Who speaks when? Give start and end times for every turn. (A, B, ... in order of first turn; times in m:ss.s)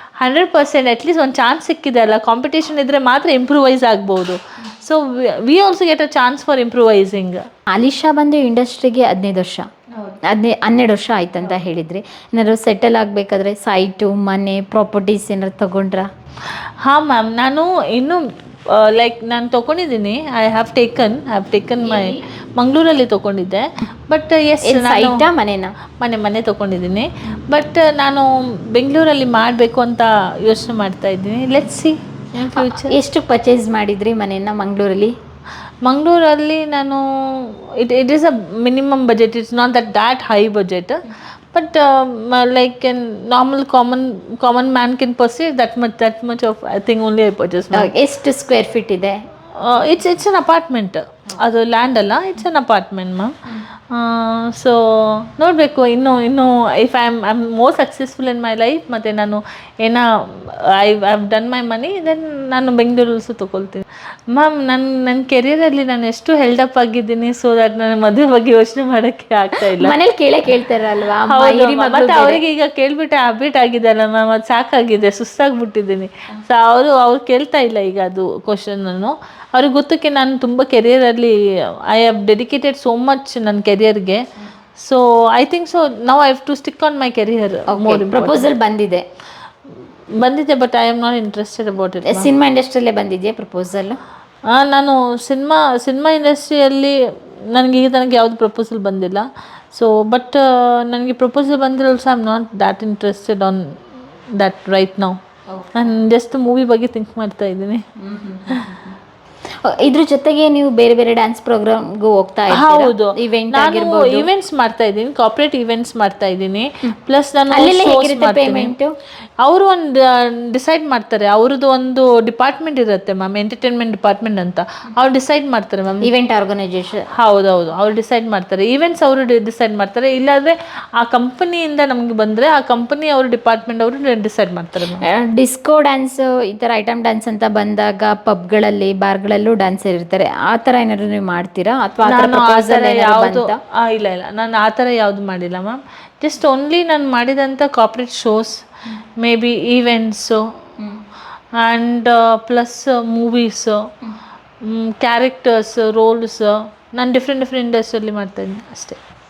0:00.2-0:07.4 A
0:07.7-0:09.7 B
0:10.3-0:16.1 B
0:16.8-0:25.2 A
0:21.8-0:22.2 B
0:24.6-0:25.7 B
0:26.0-0:33.0 A
0:32.5-0:35.2 B
0:35.8-0:47.9 A
0:47.7-0:49.2 B
0:49.6-0:53.4 A
0:53.9-1:09.9 A
1:09.6-1:12.4 B
1:11.3-1:24.2 A
1:24.8-1:28.5 A
1:27.7-1:29.0 B
1:30.2-1:32.3 A
1:32.0-1:34.0 B
1:34.5-1:37.0 A
1:37.5-1:43.8 A
1:44.4-1:45.2 A
1:45.5-1:46.0 B
1:45.7-1:47.8 A
1:48.0-1:49.0 B
1:49.6-1:54.3 B
1:52.5-1:58.7 A
1:57.5-1:58.9 B
1:59.4-2:06.1 A
2:06.0-2:07.0 B
2:07.2-2:15.0 A
2:15.0-2:23.6 B
2:22.0-2:28.6 A
2:29.2-2:30.4 A
2:31.6-2:33.8 A
2:34.6-2:39.0 A